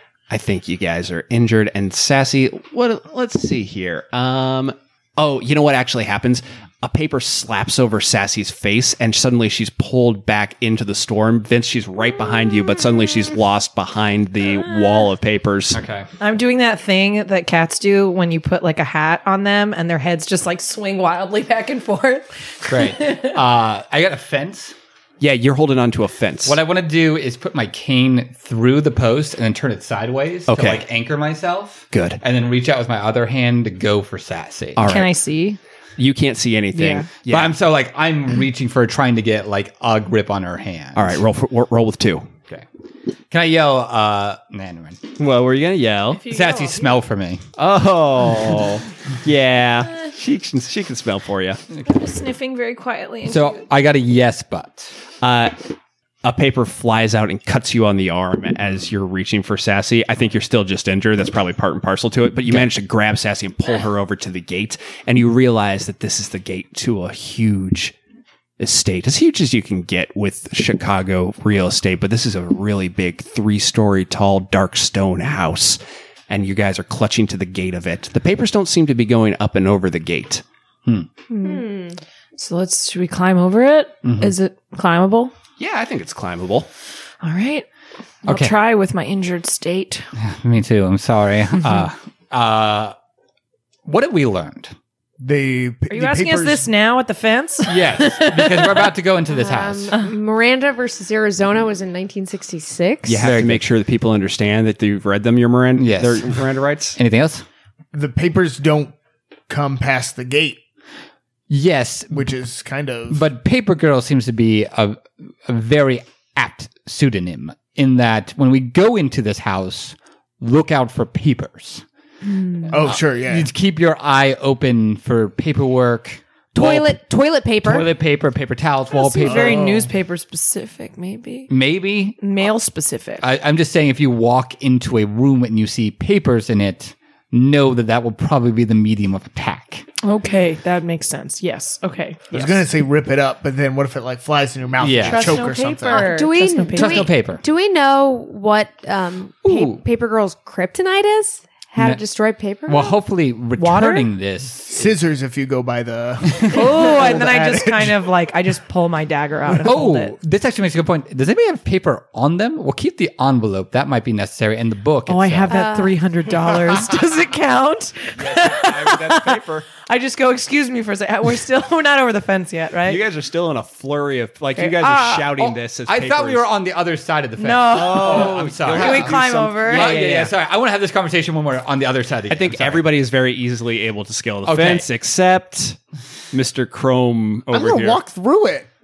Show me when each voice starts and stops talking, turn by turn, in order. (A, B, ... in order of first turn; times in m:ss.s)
0:00.3-0:15.8 A
0:15.7-0:16.1 B
0:16.2-0:23.4 C
0:22.7-0:24.7 B
0:25.2-0:26.6 A
0:26.4-0:34.9 B
0:30.5-0:30.8 A
0:31.9-0:32.2 A
0:34.8-0:35.1 A
0:34.8-0:35.6 C
0:36.0-0:37.5 A
0:36.7-0:37.1 C
0:37.3-0:41.2 B
0:41.0-0:42.3 A
0:43.3-0:45.0 B
0:45.2-0:46.3 A
0:46.2-0:47.0 C
0:46.2-0:47.4 B
0:47.6-0:51.6 A
0:51.8-0:53.6 C
0:53.2-0:54.9 B
0:55.2-0:55.6 A
0:56.2-1:08.0 A
1:08.6-1:20.4 A
1:21.3-1:21.6 C
1:21.4-1:22.0 D
1:22.4-1:25.3 C
1:24.0-1:24.3 B
1:25.6-1:26.7 A
1:27.2-1:27.6 C
1:28.2-1:28.5 B
1:28.2-1:30.0 C
1:30.2-1:32.9 B
1:33.8-1:34.7 B
1:35.2-1:36.6 E
1:35.9-1:38.8 C
1:37.6-1:39.9 B
1:39.3-1:43.2 D
1:43.0-1:47.0 A
1:43.2-1:43.6 B
1:45.8-1:46.4 B
1:47.0-1:47.4 B
1:47.9-1:48.9 E
1:49.5-1:50.6 E
1:51.5-1:52.3 B
1:52.1-1:53.2 E
1:53.1-2:01.8 B
2:02.2-2:02.7 C
2:02.7-2:03.5 E
2:02.8-2:07.0 B
2:06.5-2:07.9 D
2:07.6-2:09.8 B
2:08.9-2:11.5 C
2:09.2-2:09.9 E
2:11.5-2:12.2 B
2:12.2-2:13.3 C
2:13.2-2:19.8 B
2:20.0-2:22.6 C
2:22.3-2:26.1 E
2:24.8-2:25.5 B
2:24.9-2:27.1 C
2:25.9-2:32.9 D
2:26.7-2:27.4 B
2:29.4-2:29.8 B
2:32.7-2:35.0 B
2:33.6-2:34.1 C
2:34.7-2:38.0 E
2:36.3-2:37.2 B
2:36.5-2:40.1 C
2:39.6-2:45.6 B
2:45.1-2:53.0 C
2:45.5-2:45.9 D
2:48.2-2:49.7 A
2:52.8-2:56.5 A
2:54.6-2:55.3 C
2:55.4-3:02.9 B
2:57.4-3:00.0 C
2:57.7-3:00.3 A
3:02.3-3:05.8 A
3:04.4-3:04.9 B
3:06.3-3:08.0 A
3:07.5-3:08.7 E